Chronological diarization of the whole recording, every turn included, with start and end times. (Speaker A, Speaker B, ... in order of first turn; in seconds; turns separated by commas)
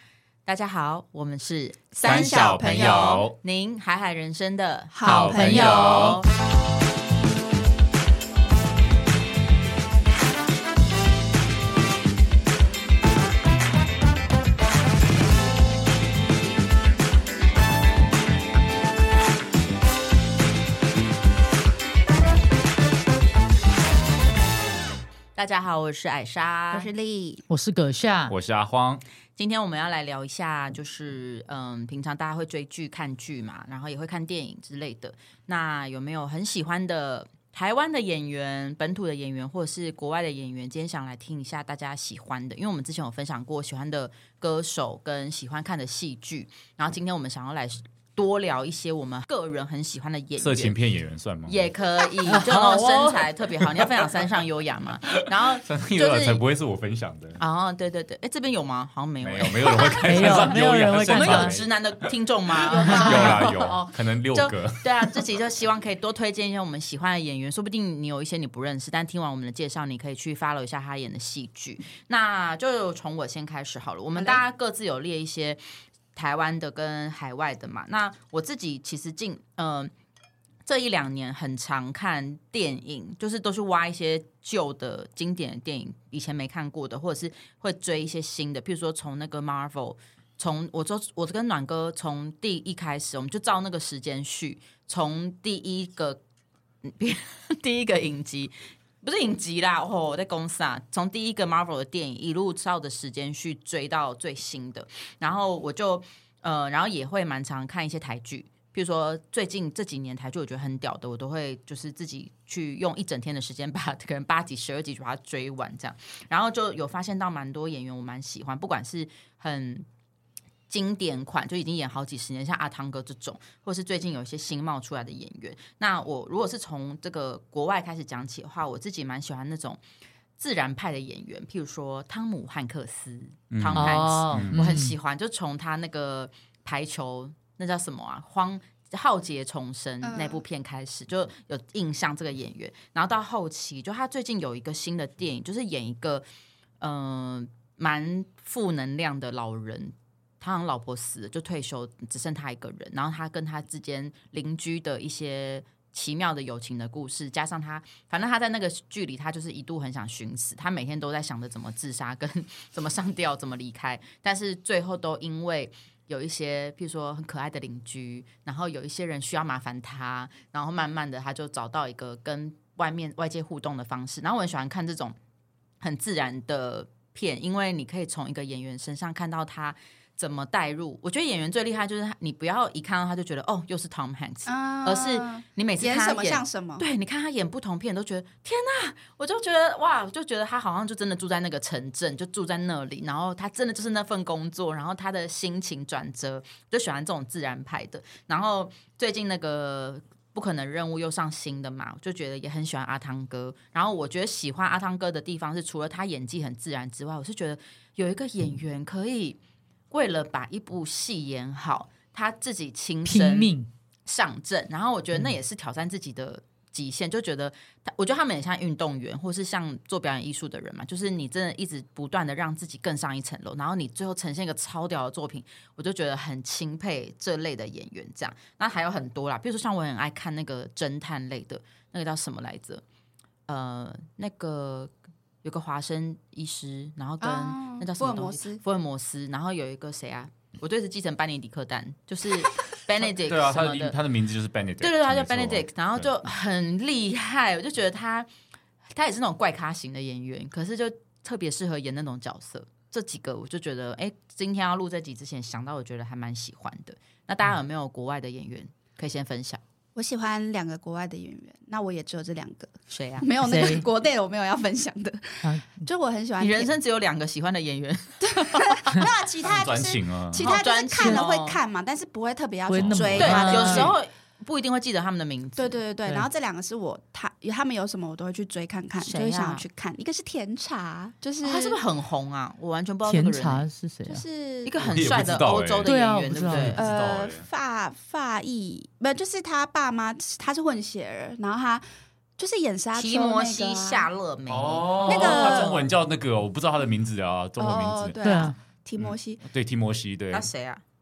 Speaker A: 0.5-6.3, Speaker B: 2.0-3.1, Speaker C: 2.0-3.3, Speaker B: 4.9-6.2, Speaker C: 5.0-6.2, Speaker A: 25.4-26.9, Speaker B: 26.7-27.4, Speaker D: 27.5-28.3, Speaker C: 28.3-29.0, Speaker A: 29.4-50.8, Speaker C: 50.4-51.7, Speaker A: 51.5-56.4, Speaker D: 52.2-53.3, Speaker C: 55.6-57.4, Speaker A: 57.4-75.6, Speaker C: 59.2-61.7, Speaker D: 60.0-61.6, Speaker B: 62.7-63.5, Speaker C: 62.9-65.2, Speaker D: 63.0-63.3, Speaker B: 74.2-74.4, Speaker A: 76.1-79.9, Speaker A: 80.7-96.2, Speaker A: 96.8-119.8, Speaker A: 120.7-129.8, Speaker A: 130.4-146.2, Speaker C: 133.5-134.7, Speaker D: 133.7-134.9, Speaker B: 140.0-140.4, Speaker A: 146.8-175.2, Speaker A: 175.8-209.4, Speaker B: 184.4-186.8, Speaker A: 209.9-213.5, Speaker D: 213.1-213.7, Speaker A: 214.1-232.8, Speaker A: 233.5-234.9, Speaker A: 235.4-243.9, Speaker B: 237.2-238.6, Speaker C: 243.1-246.1, Speaker A: 244.8-248.3, Speaker A: 248.9-259.6, Speaker B: 259.9-266.7, Speaker A: 262.9-263.3, Speaker D: 263.4-263.9, Speaker D: 265.4-265.9, Speaker A: 266.4-268.8, Speaker B: 268.2-273.9, Speaker C: 269.4-270.5, Speaker A: 270.4-271.6, Speaker D: 270.9-271.2, Speaker D: 272.7-273.9, Speaker C: 272.8-273.9, Speaker A: 273.2-275.8, Speaker B: 275.6-281.8, Speaker A: 279.0-279.6, Speaker A: 281.4-283.6, Speaker D: 283.1-284.2, Speaker B: 284.1-284.7, Speaker A: 284.6-286.8, Speaker C: 284.8-285.9, Speaker D: 285.8-286.8, Speaker C: 286.4-287.4, Speaker B: 286.7-291.8, Speaker B: 292.4-294.1, Speaker A: 292.9-295.9, Speaker C: 294.5-298.1, Speaker B: 295.0-295.8, Speaker B: 297.6-299.4, Speaker D: 298.2-298.5, Speaker C: 299.0-300.5, Speaker A: 300.3-300.8